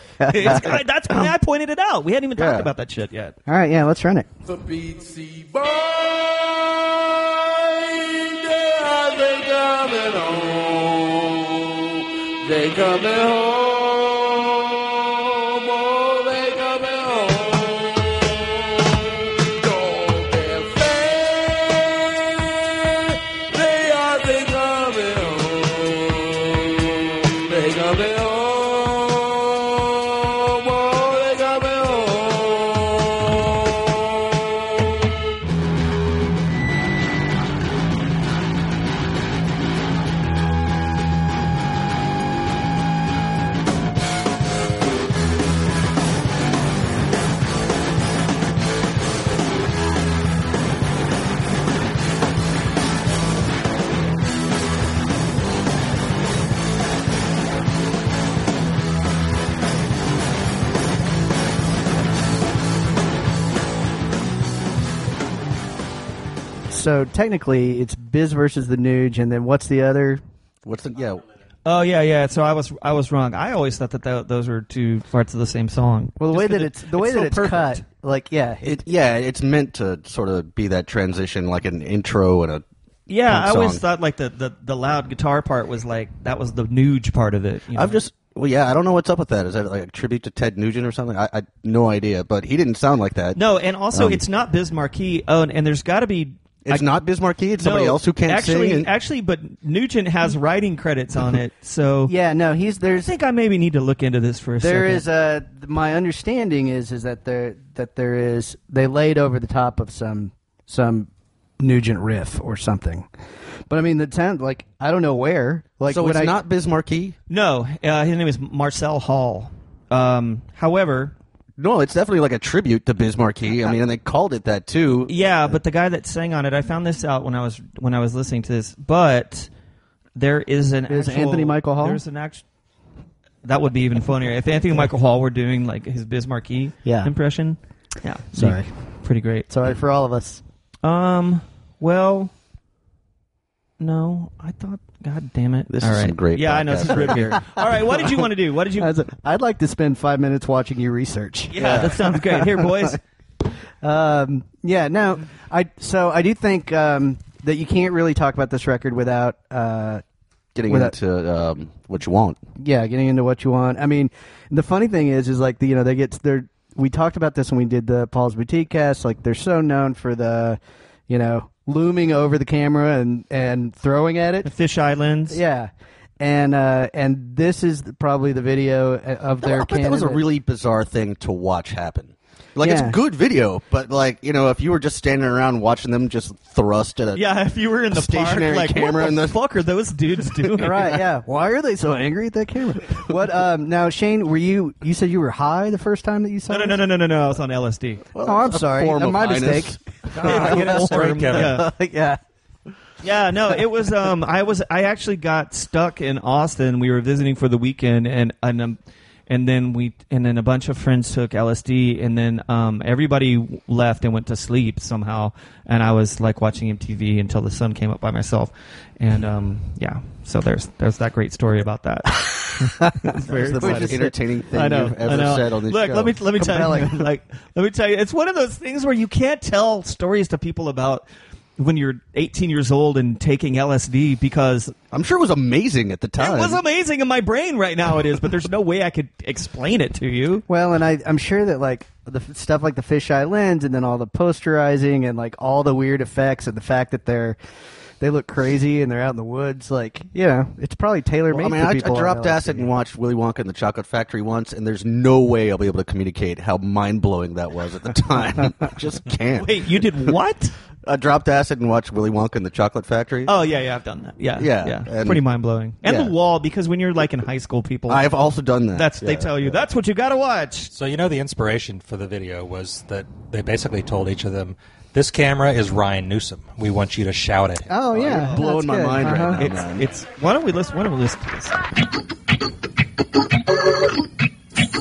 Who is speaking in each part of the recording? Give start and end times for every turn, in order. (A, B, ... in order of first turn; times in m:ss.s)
0:00.2-0:00.6 A
0:00.3-0:03.4 B
0:00.4-0:00.8 C
0:02.4-0:02.7 C
0:03.5-0:04.3 A
0:04.5-0:35.0 D
1:06.7-1:10.2 A
1:10.6-1:11.3 C
1:11.6-1:17.8 B
1:16.2-1:18.8 A
1:18.6-1:22.6 C
1:23.1-1:28.0 B
1:23.3-1:23.8 C
1:27.7-1:33.4 C
1:33.4-1:36.9 B
1:33.9-1:34.2 C
1:36.6-1:38.9 C
1:37.6-1:42.1 B
1:42.1-1:43.1 A
1:42.8-1:45.1 B
1:44.6-1:51.1 A
1:51.6-1:53.1 A
1:53.7-1:56.4 A
1:55.9-1:57.2 C
1:57.3-2:01.2 B
2:01.6-2:05.6 C
2:05.1-2:09.5 B
2:10.2-2:12.4 B
2:10.9-2:12.0 A
2:13.4-2:19.5 B
2:16.8-2:17.1 A
2:18.3-2:18.7 A
2:19.5-2:20.4 A
2:20.8-2:22.3 B
2:23.8-2:28.9 B
2:25.7-2:28.2 C
2:28.8-2:32.6 A
2:31.5-2:33.0 B
2:31.6-2:32.0 C
2:33.8-2:40.0 A
2:40.6-2:42.4 C
2:40.7-2:40.9 A
2:42.6-2:50.6 A
2:51.1-2:54.5 A
2:54.4-2:55.4 B
2:55.3-3:00.2 A
2:59.4-3:07.3 C
3:02.6-3:03.0 A
3:07.2-3:11.0 B
3:07.9-3:09.4 C
3:10.6-3:16.8 A
3:16.5-3:18.0 B
3:18.1-3:20.8 C
3:18.2-3:22.2 A
3:20.2-3:21.7 B
3:20.2-3:21.6 E
3:23.0-3:28.8 B
3:29.3-3:51.0 B
3:42.8-3:44.1 A
3:43.3-3:46.2 C
3:46.4-3:47.0 A
3:51.6-3:54.8 B
3:54.9-3:56.6 C
3:56.2-4:00.4 B
4:00.5-4:07.4 A
4:08.0-4:12.7 A
4:11.3-4:20.1 C
4:19.4-4:20.6 B
4:20.8-4:23.4 C
4:23.3-4:28.2 B
4:24.4-4:25.2 C
4:25.8-4:26.1 C
4:27.9-4:29.7 C
4:28.7-4:30.7 B
4:30.7-4:37.7 E
4:37.7-4:39.5 A
4:37.9-4:39.9 C
4:38.0-4:38.4 B
4:39.4-4:41.6 B